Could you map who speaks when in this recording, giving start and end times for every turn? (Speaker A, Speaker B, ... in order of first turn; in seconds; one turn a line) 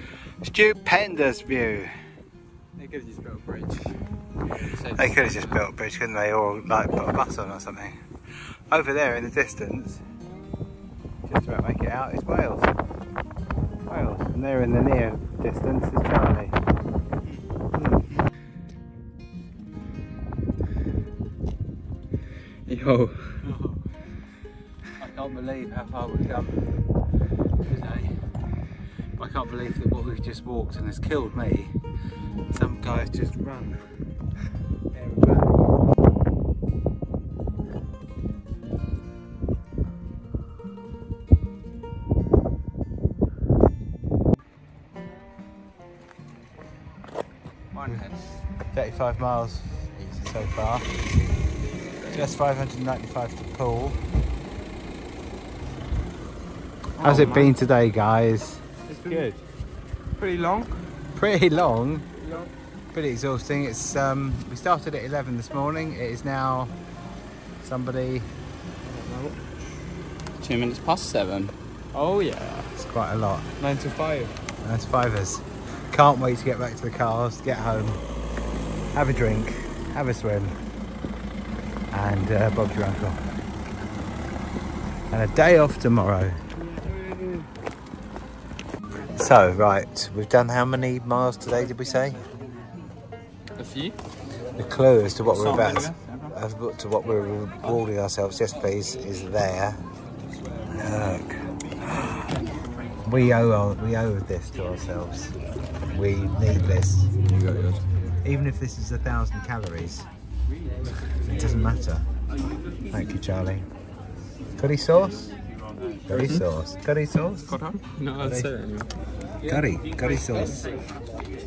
Speaker A: 0.4-1.9
Speaker B: 2.8-3.5
Speaker C: 2.9-3.8
Speaker C: 4.6-5.5
Speaker A: 4.9-7.9
Speaker A: 8.7-10.0
Speaker A: 11.2-12.7
Speaker A: 13.9-16.6
Speaker B: 22.7-23.1
Speaker A: 23.4-23.8
Speaker A: 25.0-26.6
Speaker A: 27.6-28.1
Speaker A: 29.1-31.7
Speaker A: 32.5-33.8
Speaker A: 34.9-35.7
Speaker C: 47.7-48.4
Speaker A: 48.7-50.9
Speaker C: 49.9-50.4
Speaker C: 52.0-52.3
Speaker A: 52.1-54.0
Speaker C: 57.0-57.5
Speaker A: 57.0-58.6
Speaker C: 58.9-59.4
Speaker C: 60.2-60.7
Speaker A: 61.1-62.0
Speaker A: 62.9-66.7
Speaker A: 67.6-68.3
Speaker B: 68.8-69.4
Speaker C: 70.4-71.5
Speaker B: 71.9-72.7
Speaker A: 72.8-73.5
Speaker B: 73.6-74.3
Speaker A: 74.6-78.0
Speaker A: 78.9-80.5
Speaker A: 81.9-83.2
Speaker A: 85.1-86.4
Speaker A: 89.1-92.2
Speaker B: 93.6-94.0
Speaker A: 94.6-99.8
Speaker C: 95.2-96.3
Speaker A: 100.7-101.3
Speaker A: 103.0-105.3
Speaker A: 105.9-107.1
Speaker C: 107.2-107.8
Speaker A: 108.2-110.0
Speaker A: 111.2-112.0
Speaker A: 112.9-113.6
Speaker A: 114.6-115.3
Speaker C: 116.1-116.5
Speaker A: 116.1-117.6
Speaker C: 117.5-117.8
Speaker B: 117.9-118.9
Speaker A: 118.2-118.5
Speaker A: 119.4-120.6